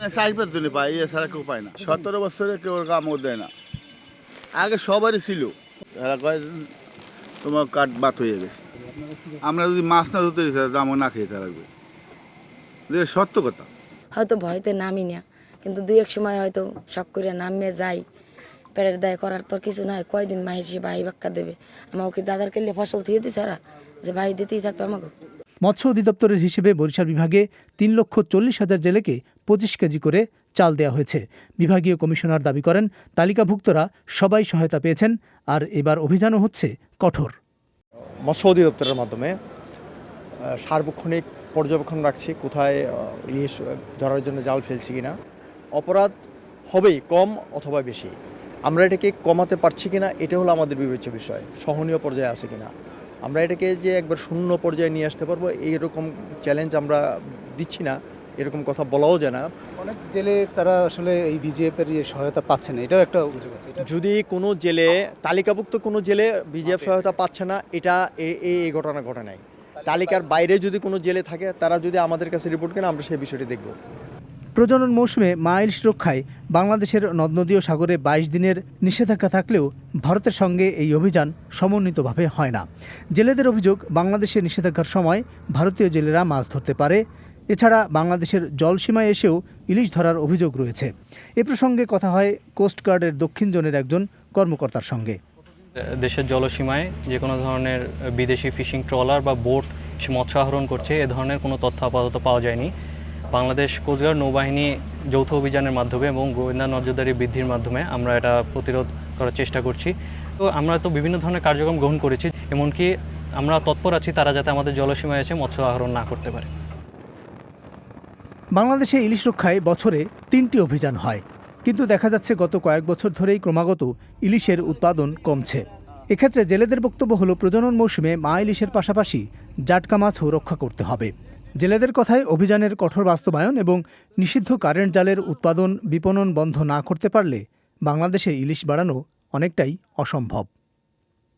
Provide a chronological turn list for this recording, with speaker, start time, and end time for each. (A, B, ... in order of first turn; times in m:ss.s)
0:00.1-0:03.5 A
0:04.6-0:05.5 A
0:06.1-0:06.4 A
0:07.4-0:08.6 A
0:09.6-0:11.6 A
0:12.9-0:13.6 A
0:14.2-0:18.0 B
0:18.8-0:25.1 B
0:25.6-0:37.3 C
0:38.3-0:39.4 D
0:40.5-0:45.1 D
0:45.8-0:46.1 D
0:46.7-0:48.1 D
0:48.7-0:52.7 D
0:53.2-0:59.5 D
0:59.8-1:03.8 E
1:03.8-1:13.7 D
1:09.9-1:10.2 E
1:14.6-1:27.0 C
1:27.5-1:35.2 C
1:36.0-1:42.7 F
1:43.3-1:56.5 F
1:58.6-2:20.5 C